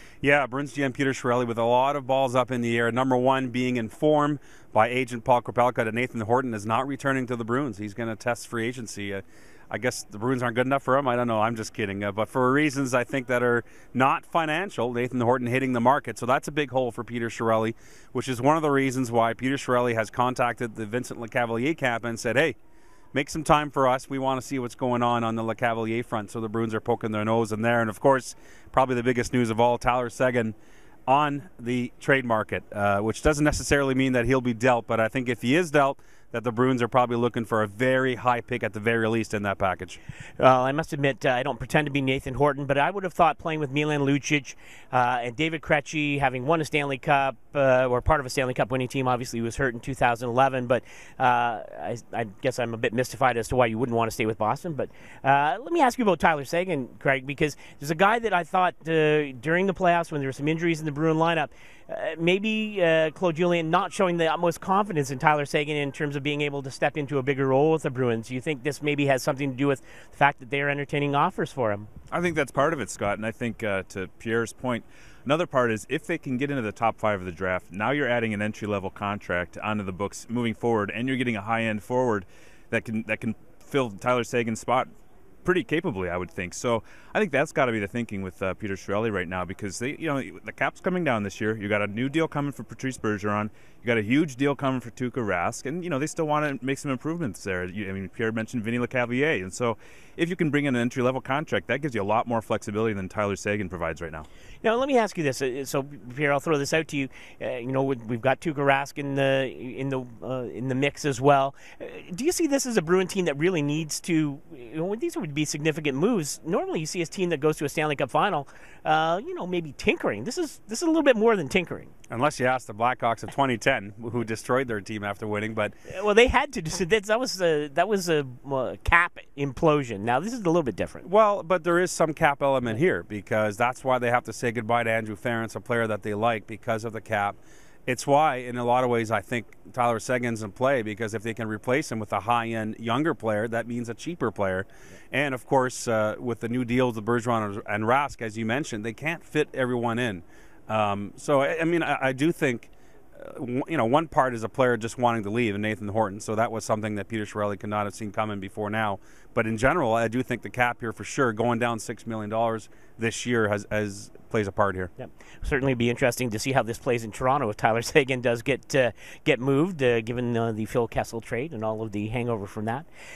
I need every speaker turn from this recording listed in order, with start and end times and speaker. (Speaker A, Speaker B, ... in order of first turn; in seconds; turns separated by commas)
Speaker A: 0.2-22.6, Speaker A: 23.1-30.6, Speaker A: 31.1-40.0, Speaker B: 40.4-71.9, Speaker C: 72.1-84.9, Speaker C: 85.4-104.3, Speaker B: 104.6-121.9, Speaker A: 122.1-125.8, Speaker B: 125.9-131.0, Speaker A: 131.0-164.9, Speaker B: 165.0-172.9